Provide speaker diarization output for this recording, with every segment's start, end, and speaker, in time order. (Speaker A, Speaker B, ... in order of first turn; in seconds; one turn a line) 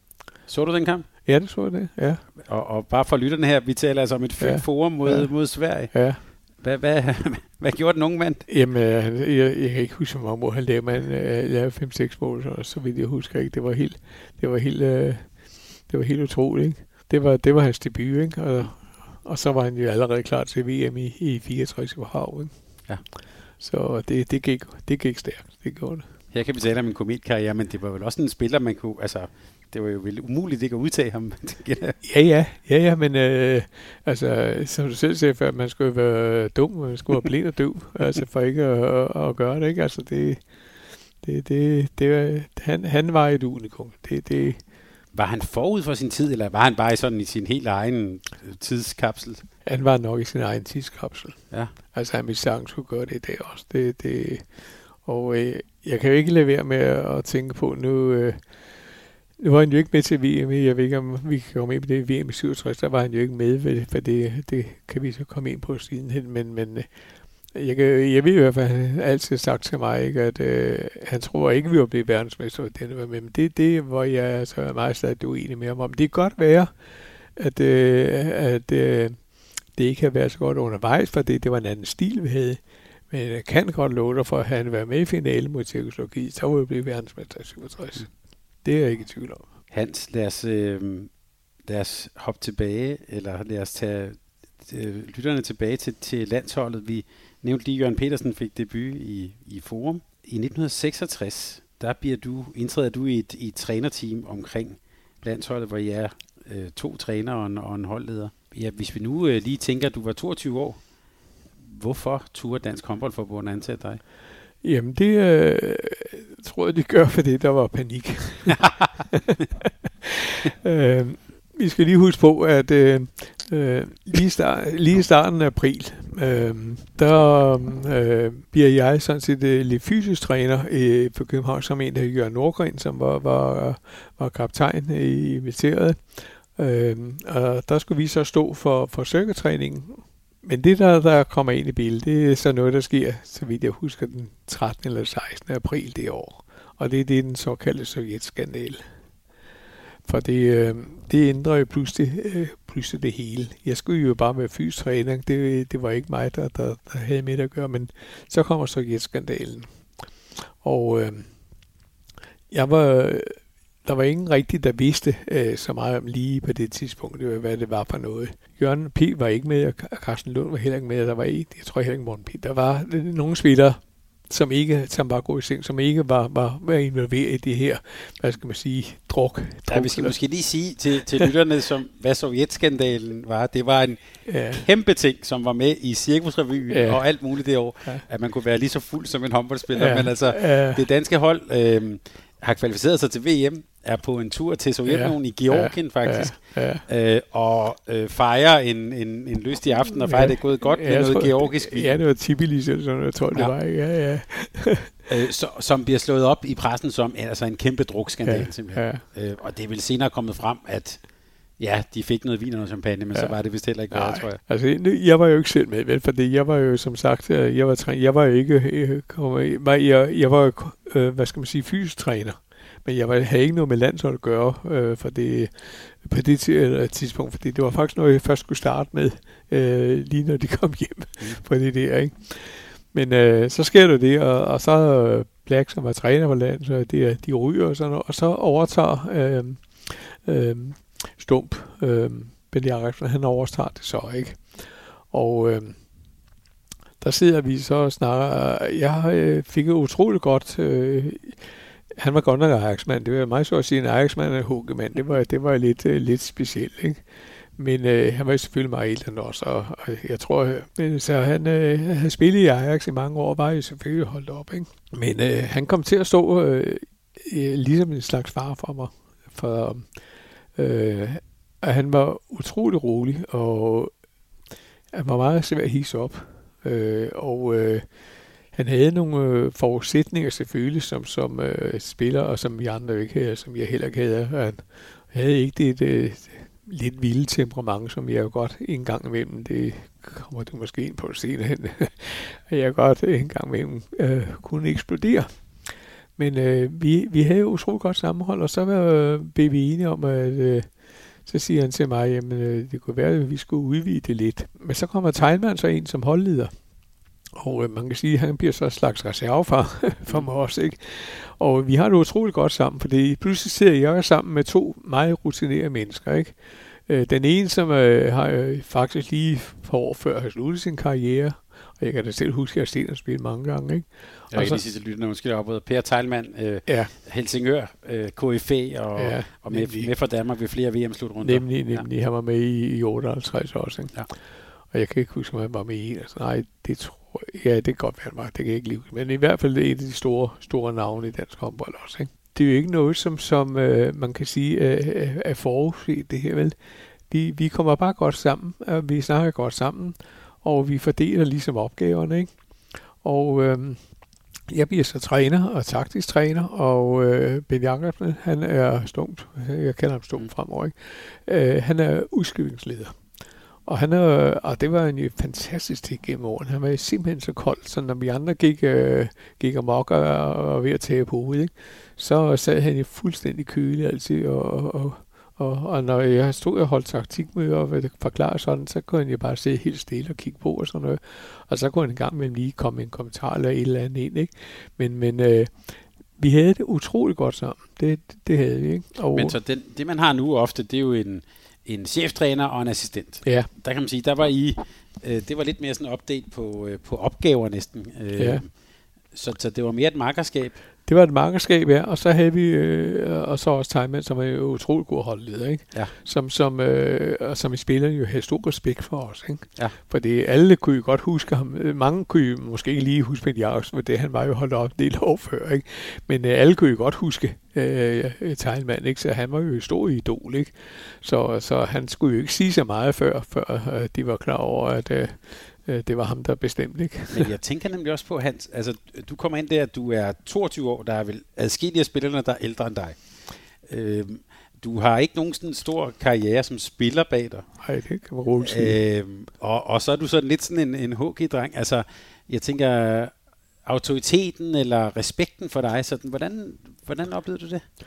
Speaker A: 0.5-1.1
Speaker B: 1.2-2.2
Speaker A: 2.4-8.5
Speaker B: 4.4-6.2
Speaker B: 8.5-22.5
Speaker B: 23.6-26.1
Speaker A: 26.3-32.0
Speaker B: 32.0-40.4
Speaker B: 41.2-44.6
Speaker A: 45.1-49.5
Speaker B: 49.6-66.9
Speaker B: 67.5-76.7
Speaker B: 77.3-89.5
Speaker A: 89.7-110.8
Speaker A: 111.6-114.0
Speaker B: 114.6-148.8
Speaker A: 118.5-119.0
Speaker B: 150.1-159.7
Speaker B: 160.4-161.3
Speaker B: 162.5-180.1
Speaker A: 179.7-201.9
Speaker B: 184.3-184.6
Speaker B: 186.7-187.1
Speaker B: 189.8-190.8
Speaker B: 194.9-196.8
Speaker B: 200.0-205.0
Speaker A: 205.1-211.0
Speaker B: 208.2-209.0
Speaker A: 211.6-214.4
Speaker B: 213.9-245.8
Speaker B: 247.0-257.0
Speaker B: 257.6-269.9
Speaker B: 270.6-273.9
Speaker B: 274.9-277.9
Speaker B: 278.5-295.3
Speaker B: 296.2-300.7
Speaker B: 301.2-306.5
Speaker B: 307.4-324.6
Speaker A: 324.3-331.9
Speaker B: 326.7-326.9
Speaker B: 328.9-329.9
Speaker B: 331.2-334.0
Speaker B: 334.7-346.6
Speaker B: 347.1-352.3
Speaker B: 353.0-353.8
Speaker B: 354.5-363.0
Speaker B: 363.7-389.4
Speaker A: 389.1-398.5
Speaker B: 393.2-393.5
Speaker B: 398.2-398.4
Speaker A: 399.1-400.6
Speaker B: 400.9-427.3
Speaker A: 427.1-433.0
Speaker A: 433.6-437.5
Speaker B: 437.6-438.8
Speaker A: 438.4-447.6